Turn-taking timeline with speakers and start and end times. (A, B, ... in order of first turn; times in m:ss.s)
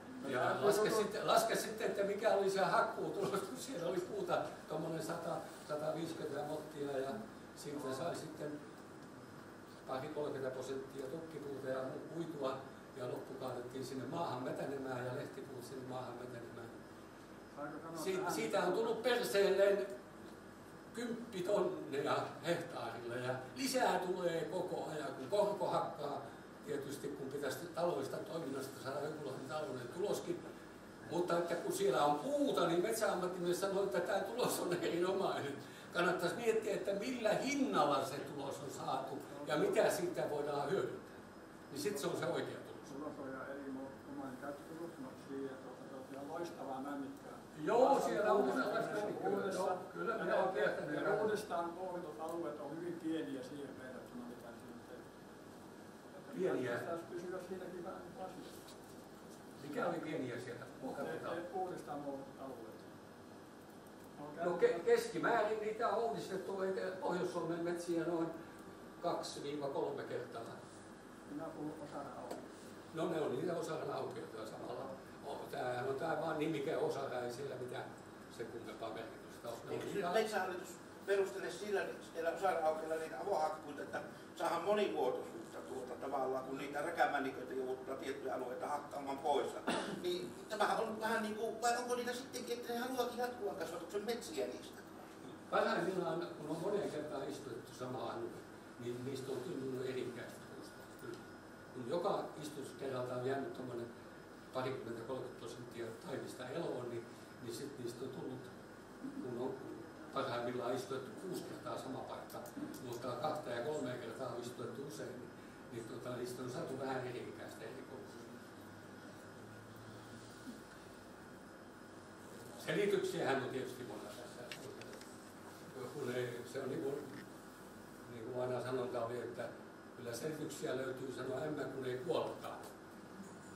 0:00.2-0:08.6 A
0:00.2-0:01.0 B
0:09.8-0:16.8 A
0:17.5-0:19.0 B
0:18.0-0:19.9 A
0:20.9-0:30.4 A
0:31.0-0:43.0 A
0:39.3-0:39.8 B
0:41.8-0:42.2 B
0:42.9-0:55.0 B
0:47.5-0:51.4 A
0:56.1-0:58.7 B
0:56.3-0:56.9 A
0:59.6-1:01.4 A
1:01.0-1:02.9 B
1:04.2-1:04.8 B
1:04.4-1:08.3 A
1:09.0-1:10.6 A
1:11.3-1:12.5 B
1:12.9-1:20.2 A
1:19.7-1:35.0 C
1:35.4-1:43.9 A
1:44.5-1:48.6 A
1:49.2-1:58.4 A
2:02.6-2:05.0 A
2:05.7-2:07.2 A
2:08.0-2:12.6 A